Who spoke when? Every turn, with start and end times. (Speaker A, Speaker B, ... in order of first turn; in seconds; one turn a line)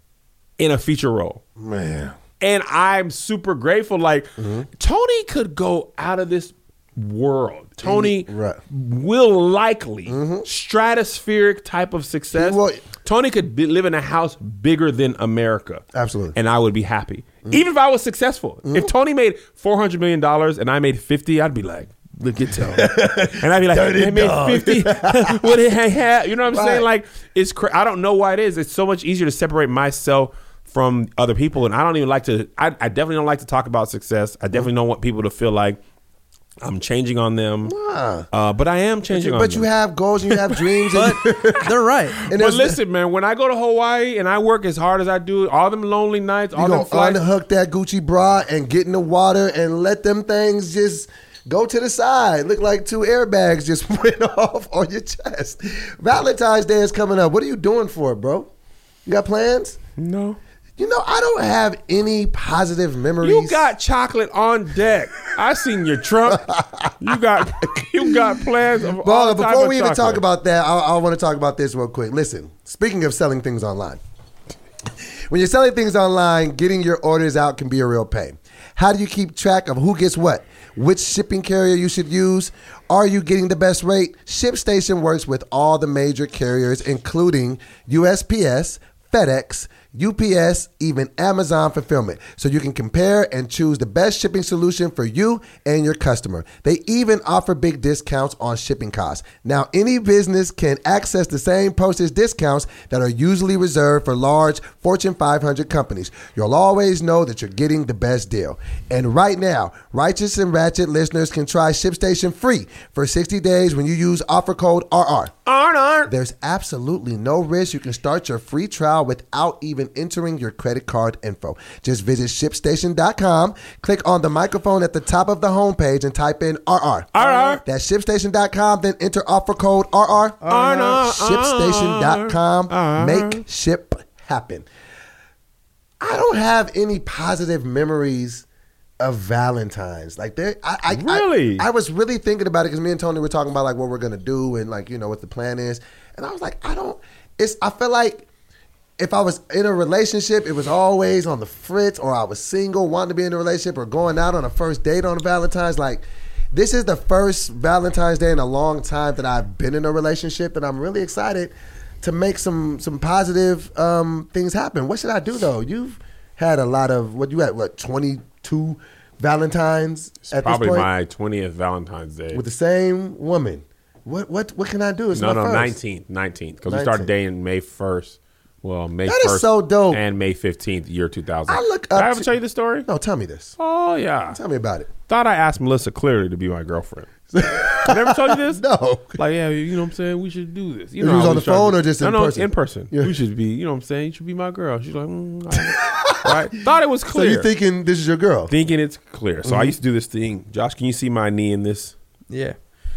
Speaker A: 0.6-1.4
Speaker B: 1.6-2.2
Speaker A: 2.4-35.8
Speaker B: 4.4-4.7
Speaker B: 7.8-8.6
Speaker B: 10.1-10.5
Speaker B: 12.3-12.8
Speaker B: 15.9-16.4
Speaker B: 22.7-25.6
Speaker B: 26.5-26.9
Speaker A: 36.6-37.7
Speaker B: 37.7-38.3
Speaker A: 38.3-39.7
Speaker B: 39.1-41.7
Speaker C: 40.9-42.2
Speaker A: 41.0-41.6
Speaker A: 42.1-47.2
Speaker B: 42.3-42.8
Speaker B: 46.5-58.5
Speaker B: 59.0-59.8
Speaker A: 60.0-60.4
Speaker B: 60.8-63.6
Speaker A: 63.2-70.2
Speaker B: 66.3-67.1
Speaker B: 69.0-74.0
Speaker B: 75.3-115.3
Speaker A: 115.5-116.1
Speaker B: 116.1-127.1
Speaker A: 127.1-127.6
Speaker C: 127.2-127.6
Speaker B: 127.6-134.7
Speaker A: 130.5-133.4
Speaker C: 130.5-130.8
Speaker B: 136.0-138.4
Speaker B: 139.0-148.3
Speaker A: 140.9-141.7
Speaker B: 149.0-170.9
Speaker A: 170.3-172.4
Speaker B: 172.3-175.8
Speaker A: 175.1-182.9
Speaker B: 176.7-177.1
Speaker B: 179.1-180.0
Speaker B: 181.5-182.3
Speaker B: 182.8-183.6
Speaker A: 183.6-184.4
Speaker B: 184.3-184.9
Speaker A: 185.1-187.1
Speaker B: 187.3-189.2
Speaker A: 187.8-188.6
Speaker A: 189.2-197.5
Speaker B: 191.0-193.2
Speaker B: 195.7-196.4
Speaker B: 197.1-198.5
Speaker A: 198.5-202.0
Speaker B: 199.4-199.8
Speaker C: 202.3-202.6